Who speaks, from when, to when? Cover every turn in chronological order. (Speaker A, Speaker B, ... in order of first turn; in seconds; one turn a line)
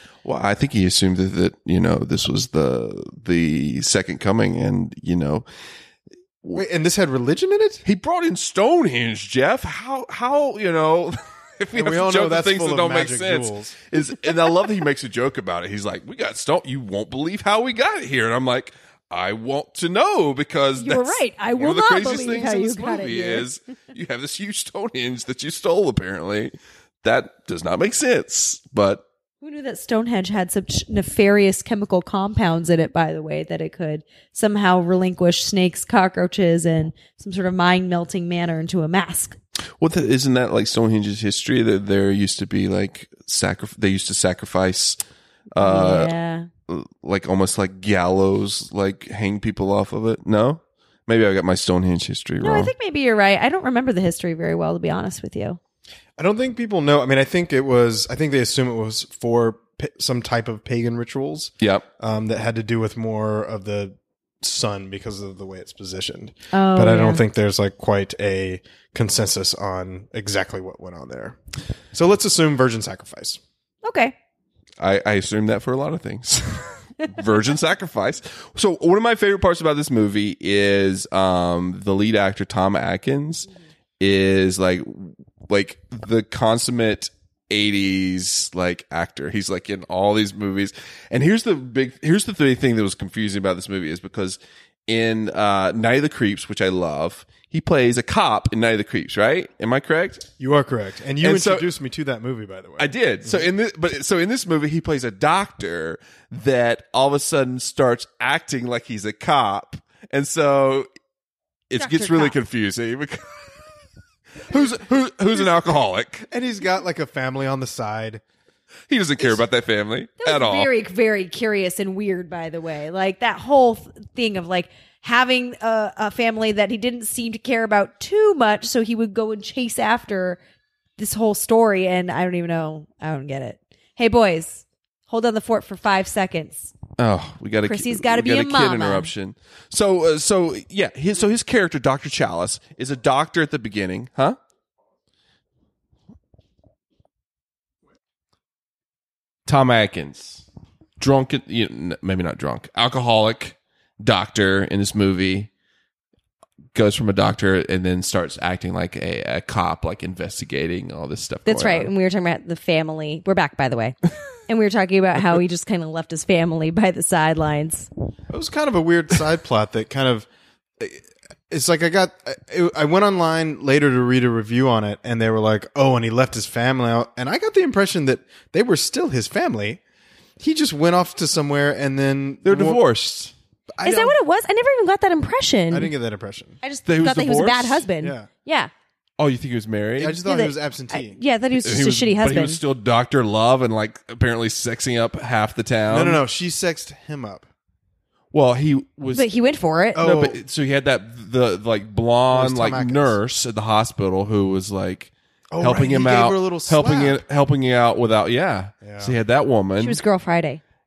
Speaker A: 0.2-5.4
Speaker B: 6.5-7.8
Speaker A: 7.8-29.0
Speaker B: 11.7-13.7
Speaker C: 20.8-23.4
Speaker C: 29.4-39.4
Speaker A: 39.8-45.0
Speaker A: 45.5-46.1
Speaker C: 45.6-46.5
Speaker A: 46.7-52.7
Speaker C: 52.4-55.6
Speaker B: 56.2-71.4
Speaker C: 66.5-67.2
Speaker B: 71.9-73.4
Speaker C: 73.8-74.1
Speaker A: 74.8-83.5
Speaker A: 84.0-100.3
Speaker B: 100.4-103.5
Speaker A: 101.2-101.7
Speaker A: 102.8-110.9
Speaker A: 111.7-113.7
Speaker C: 111.8-112.3
Speaker A: 114.4-116.3
Speaker B: 116.3-118.2
Speaker A: 118.9-120.7
Speaker C: 120.2-130.4
Speaker C: 131.0-136.7
Speaker A: 137.0-144.4
Speaker C: 137.7-139.1
Speaker A: 149.5-150.4
Speaker A: 151.0-155.5
Speaker A: 156.7-161.9
Speaker C: 161.4-164.0
Speaker C: 164.5-167.9
Speaker B: 168.3-170.3
Speaker B: 170.8-179.8
Speaker B: 180.4-182.8
Speaker A: 182.4-183.3
Speaker B: 183.8-184.2
Speaker C: 183.8-185.9
Speaker B: 185.7-186.6
Speaker C: 186.6-188.7
Speaker A: 186.8-187.9
Speaker B: 188.0-188.3
Speaker A: 189.2-190.2
Speaker B: 190.0-191.2
Speaker C: 190.2-192.6
Speaker A: 191.6-196.2
Speaker B: 195.9-197.4
Speaker A: 198.3-199.3
Speaker C: 199.1-200.1
Speaker A: 199.9-210.0
Speaker B: 199.9-200.4
Speaker B: 202.3-203.2
Speaker B: 205.5-207.2
Speaker B: 208.8-209.1
Speaker C: 209.8-210.6